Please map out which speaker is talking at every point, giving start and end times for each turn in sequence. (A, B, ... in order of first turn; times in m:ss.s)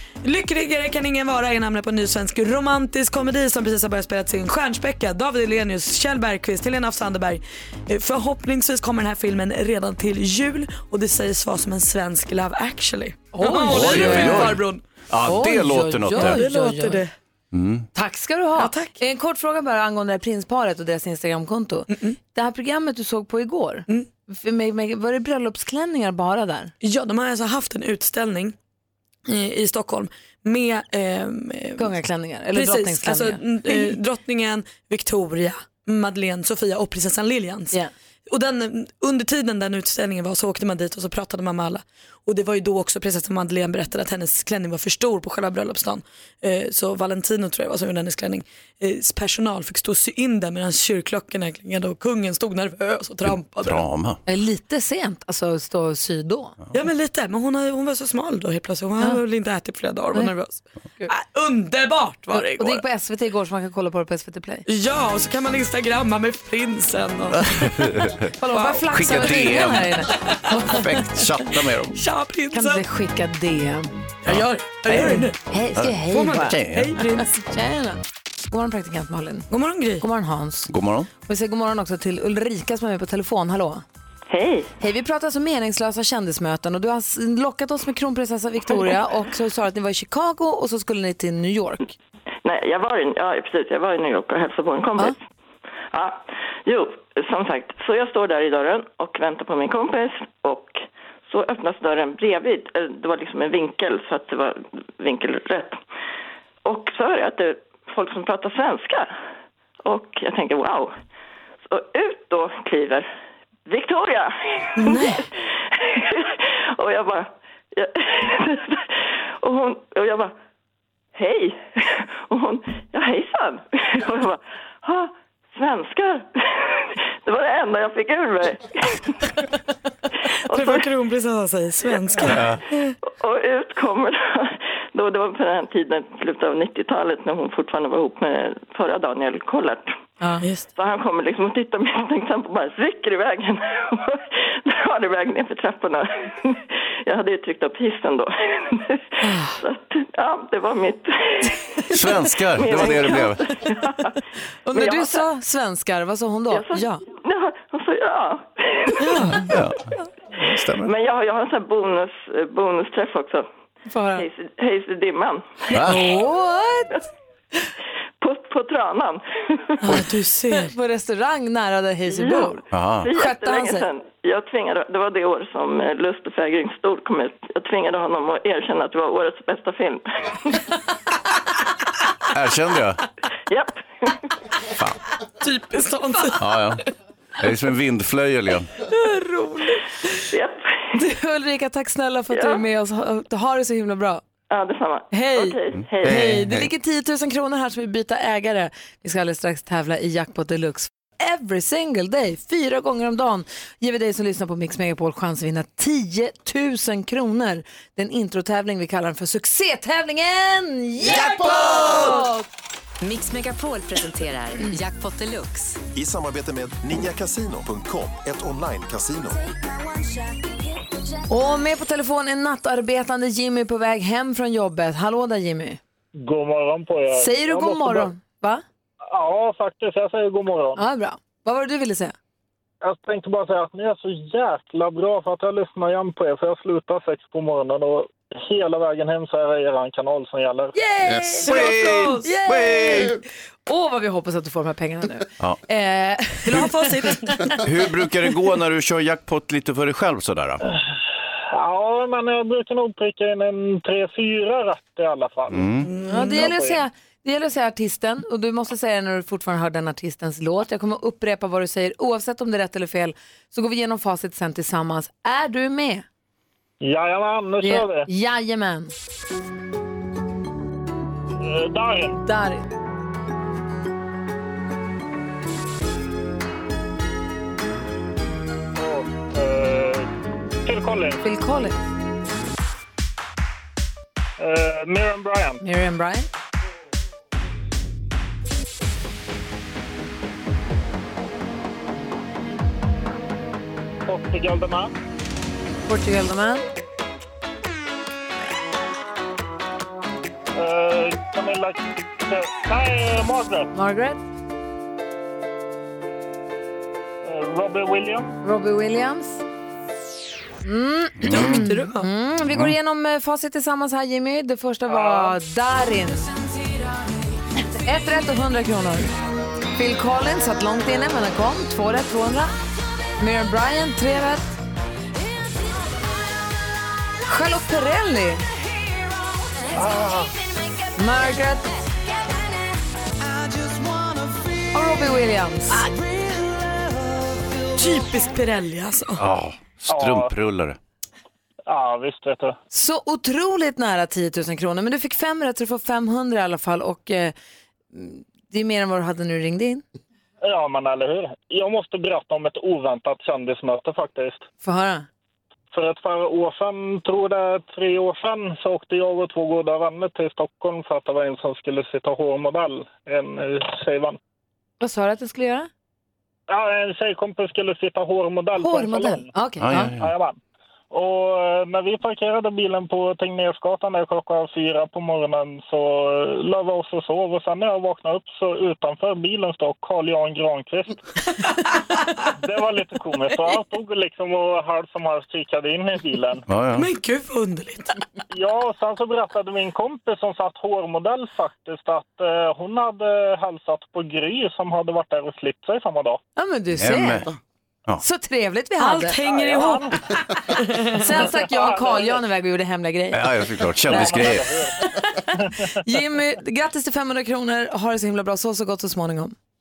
0:00.2-0:14.8 A
0:13.3-0:14.6 B
0:13.6-0:16.4 C
0:15.2-0:17.0 B
0:16.1-0:17.1 A
0:17.5-0:17.9 C
0:18.0-0:26.7 B
0:18.6-0:19.0 A
0:21.9-0:22.2 A
0:26.8-0:28.6 A
0:29.3-0:31.9 A
0:31.8-0:34.0 B
0:32.5-0:37.8 A
0:38.3-0:53.8 A
0:53.2-0:54.2 C
0:54.3-0:56.6 B
0:56.7-1:02.8 A
1:02.3-1:04.6 B
1:04.7-1:07.8 A
1:07.3-1:08.3 C
1:08.4-1:10.8 B
1:08.5-1:09.7 A
1:08.9-1:09.9 C
1:10.5-1:12.0 C
1:12.0-1:12.8 A
1:12.5-1:13.9 B
1:14.2-1:15.4 A
1:14.3-1:15.2 C
1:14.9-1:19.5 B
1:15.8-1:17.0 C
1:16.1-1:17.3 A
1:19.5-1:20.0 A
1:20.0-1:20.7 B
1:20.7-1:21.1 C
1:21.2-1:23.8 B
1:24.3-1:24.7 D
1:24.8-1:31.9 B
1:32.4-1:35.2 D
1:35.9-1:45.8 D
1:46.6-1:49.2 D
1:49.8-1:50.9 D
1:51.7-1:53.1 D
1:53.7-2:00.3 D
1:54.8-1:55.2 A
2:01.2-2:09.3 D
2:10.5-2:10.8 D
2:10.5-2:13.0 A
2:12.2-2:12.6 C
2:13.1-2:19.9 D
2:20.4-2:20.7 A
2:20.8-2:32.0 D
2:29.2-2:29.6 A
2:31.9-2:33.4 C
2:32.5-2:34.2 D
2:34.7-2:37.0 B
2:34.7-2:35.2 D
2:36.5-2:39.4 D
2:39.0-2:39.5 A
2:39.5-2:40.9 C
2:40.8-2:43.5 D
2:43.9-2:44.3 B
2:44.2-2:45.8 D
2:45.7-2:46.1 C
2:45.8-2:47.0 B
2:48.2-2:50.0 D
2:49.8-2:50.7 A
2:50.5-2:52.6 B
2:52.1-3:00.6 D
2:52.7-2:53.1 C
2:53.1-2:53.9 B
3:02.3-3:03.0 C
3:03.5-3:04.2 D
3:05.4-3:06.5 A
3:06.4-3:06.8 C
3:07.4-3:08.7 C
3:08.9-3:09.9 A
3:10.3-3:10.9 D
3:11.0-3:14.2 B
3:12.3-3:12.6 D
3:14.5-3:16.4 D
3:15.1-3:32.4 B
3:15.7-3:16.7 C
3:31.4-3:32.0 C
3:33.0-3:35.8 E
3:36.0-3:39.5 F
3:41.3-3:45.8 B
3:46.2-3:48.1 G
3:47.1-3:48.6 B
3:49.1-3:50.8 G
3:50.8-3:52.1 B
3:52.8-4:00.8 G
4:00.7-4:07.4 B
4:01.4-4:03.1 C
4:01.4-4:02.2 A
4:06.5-4:07.4 A
4:07.6-4:10.6 C
4:11.5-4:15.7 G
4:15.5-4:15.9 C
4:15.9-4:16.4 A
4:16.1-4:26.0 B
4:16.3-4:16.8 G
4:26.8-4:28.1 G
4:27.6-4:28.9 B
4:31.4-4:32.2 G
4:32.2-4:32.6 B
4:38.8-4:40.1 G
4:40.6-4:41.2 G
4:41.2-4:41.8 B
4:44.4-4:45.6 G
4:45.6-4:46.3 B
4:54.0-4:54.9 G
4:55.9-4:56.6 B
5:00.5-5:03.7 G
5:03.7-5:04.2 B
5:07.2-5:08.3 G
5:08.4-5:09.4 B
5:10.6-5:16.3 B
5:11.2-5:11.6 C
5:11.3-5:12.1 A
5:14.9-5:15.4 G
5:17.8-5:19.1 B
5:19.8-5:22.5 B
5:23.2-5:24.6 B
5:27.2-5:28.4 B
5:29.7-5:30.3 G
5:31.0-5:31.7 B
5:34.7-5:35.9 B
5:37.8-5:39.2 A
5:39.2-5:40.8 C
5:39.9-5:40.3 G
5:41.7-5:42.6 G
5:42.7-5:47.3 B
5:47.9-5:49.8 B
5:50.4-5:54.5 G
5:54.6-5:55.1 B
5:55.7-6:04.2 G
6:04.8-6:05.7 B
6:06.5-6:09.3 G
6:08.6-6:09.9 B
6:09.6-6:10.1 C
6:09.9-6:10.4 G
6:10.9-6:21.0 G
6:22.4-6:26.4 G
6:26.5-6:26.9 C
6:26.8-6:28.0 A
6:28.3-6:36.2 G
6:36.4-6:37.3 B
6:36.8-6:37.3 C
6:38.0-6:39.2 B
6:38.8-6:41.0 A
6:39.2-6:40.0 G
6:41.0-6:43.3 B
6:41.4-6:42.2 G
6:43.1-6:44.5 C
6:43.8-6:44.9 G
6:43.9-6:45.2 B
6:45.8-6:49.4 B